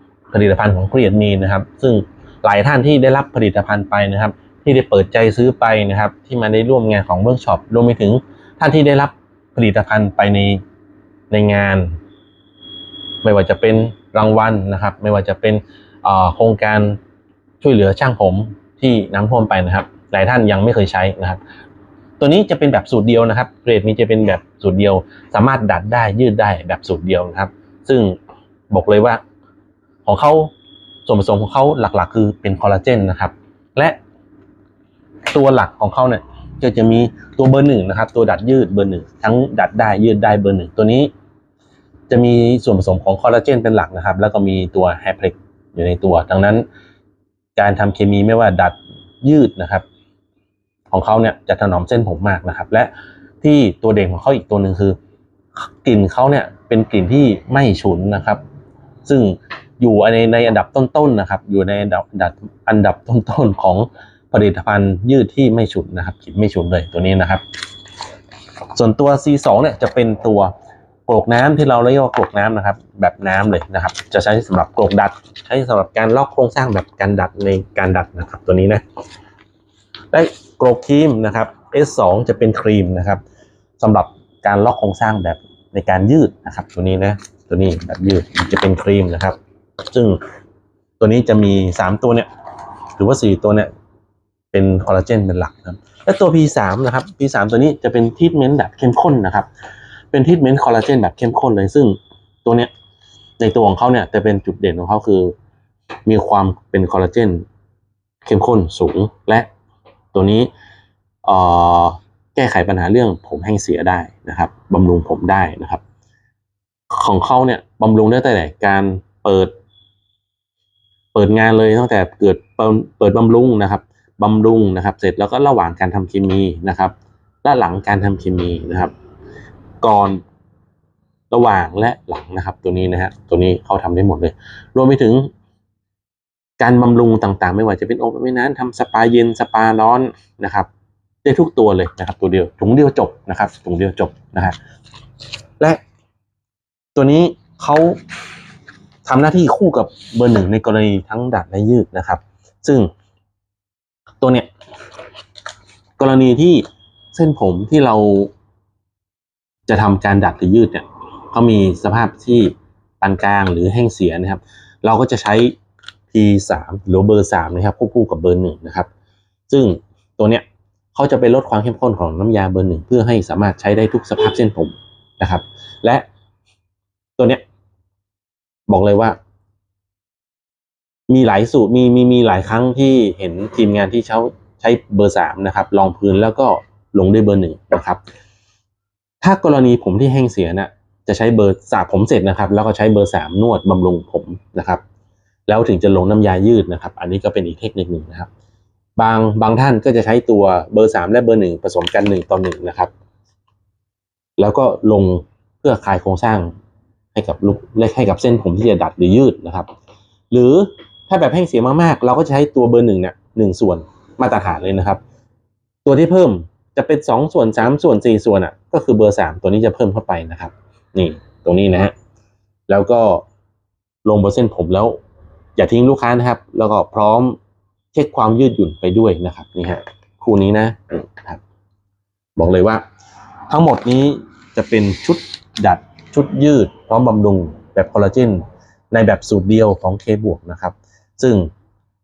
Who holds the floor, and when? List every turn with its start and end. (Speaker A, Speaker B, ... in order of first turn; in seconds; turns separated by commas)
Speaker A: 0.3-10.6, Speaker A: 11.3-12.0, Speaker A: 13.2-17.0, Speaker A: 17.6-21.4, Speaker A: 22.2-28.2, Speaker A: 28.7-29.2, Speaker A: 30.0-30.5, Speaker A: 31.1-34.0, Speaker A: 35.3-41.1, Speaker A: 42.1-46.6, Speaker A: 47.5-49.9, Speaker A: 50.9-55.0, Speaker A: 55.8-58.4, Speaker A: 59.0-67.4, Speaker A: 68.7-70.5, Speaker A: 71.1-78.8, Speaker A: 80.1-83.2, Speaker A: 83.8-90.2, Speaker A: 91.0-92.3, Speaker A: 93.0-93.7, Speaker A: 94.5-99.5, Speaker A: 100.1-102.7, Speaker A: 103.4-105.3, Speaker A: 106.0-107.4, Speaker A: 108.2-109.5, Speaker A: 110.1-110.5, Speaker A: 111.2-115.8, Speaker A: 116.9-119.5, Speaker A: 121.1-128.9, Speaker A: 129.8-130.2, Speaker A: 131.3-135.3, Speaker A: 136.6-140.7, Speaker A: 141.2-144.6, Speaker A: 146.9-148.0, Speaker A: 149.1-152.9, Speaker A: 154.2-154.5, Speaker A: 156.0-158.3, Speaker A: 159.7-165.6, Speaker A: 166.1-168.9, Speaker A: 169.5-170.4, Speaker A: 170.9-176.0, Speaker A: 177.2-177.4, Speaker A: 178.7-179.2, Speaker A: 181.1-188.0, Speaker A: 189.2-194.8, Speaker A: 195.5-198.3, Speaker A: 199.0-202.9, Speaker A: 204.4-206.5, Speaker A: 207.1-209.7, Speaker A: 210.3-215.0, Speaker A: 215.8-221.9, Speaker A: 222.7-223.2, Speaker A: 224.0-225.0, Speaker A: 225.6-227.4, Speaker A: 227.9-231.4, Speaker A: 232.3-232.8, Speaker A: 233.5-241.5